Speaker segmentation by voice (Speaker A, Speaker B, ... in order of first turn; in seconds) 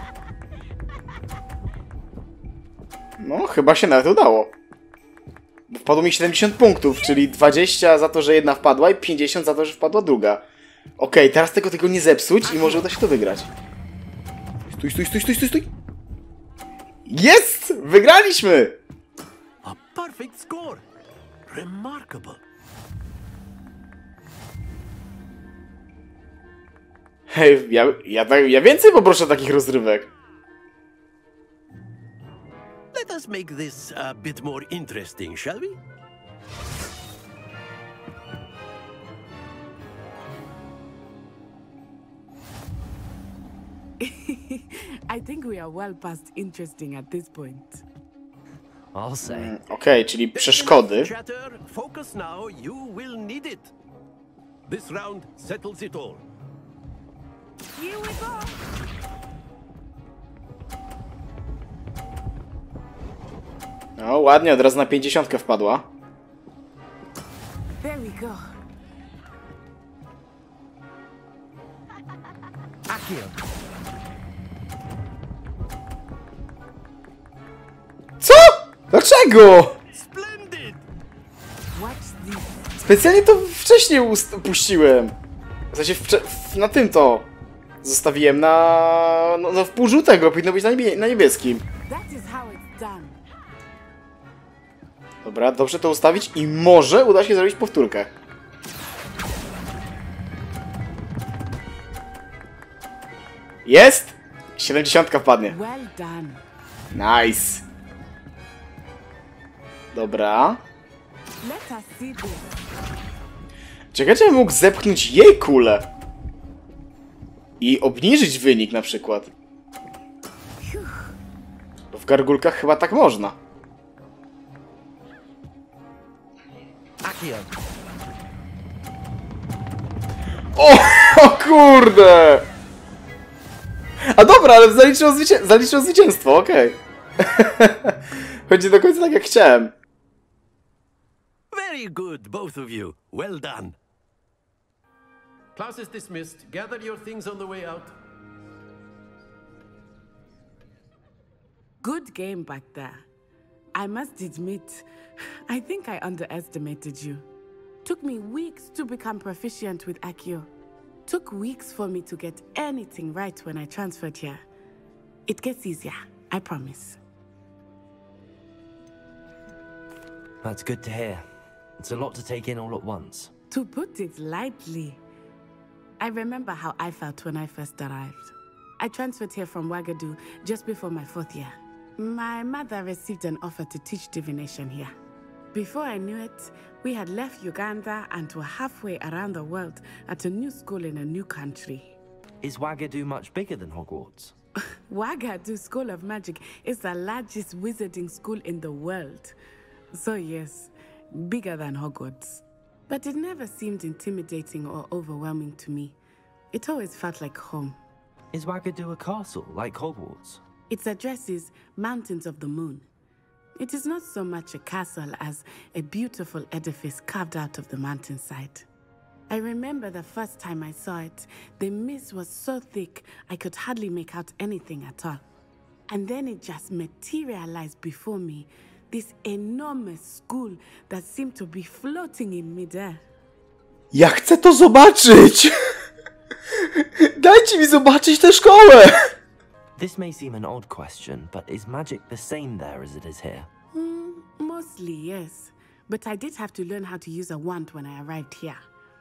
Speaker A: 3.2-4.5, 5.7-10.4, 11.0-13.5, 14.7-15.7, 17.1-18.8, 27.3-30.1, 49.2-51.1, 64.0-65.9, 78.2-79.8, 82.8-85.1, 85.7-87.3, 87.8-91.6, 95.2-98.1, 103.6-105.5, 106.9-107.6, 109.9-110.6, 113.9-115.9, 117.6-119.3, 121.9-123.3, 130.5-132.5, 134.1-139.7, 233.9-235.5, 236.6-239.1
Speaker B: 12.4-12.8, 19.6-20.8, 21.5-22.4, 32.9-35.8, 50.3-53.7, 54.7-56.2, 79.9-80.8, 141.5-143.8, 145.6-148.0
Speaker C: 44.0-47.8, 57.7-58.6, 67.8-68.5, 81.7-82.7, 91.9-93.2, 105.5-106.4, 111.4-112.5, 120.6-121.1, 151.8-153.0, 153.7-154.9, 155.5-157.2, 157.8-160.5, 161.1-164.4, 165.3-167.0, 173.5-175.0, 176.0-184.9, 185.5-191.9, 194.9-199.3, 199.9-205.9, 206.5-207.8, 210.7-212.9, 213.6-218.7, 219.3-225.2, 225.9-233.0, 243.7-248.6
Speaker D: 48.9-49.5, 72.9-73.3, 127.0-127.5, 170.4-171.2, 171.8-173.3, 192.4-194.3, 208.3-210.4, 239.8-243.5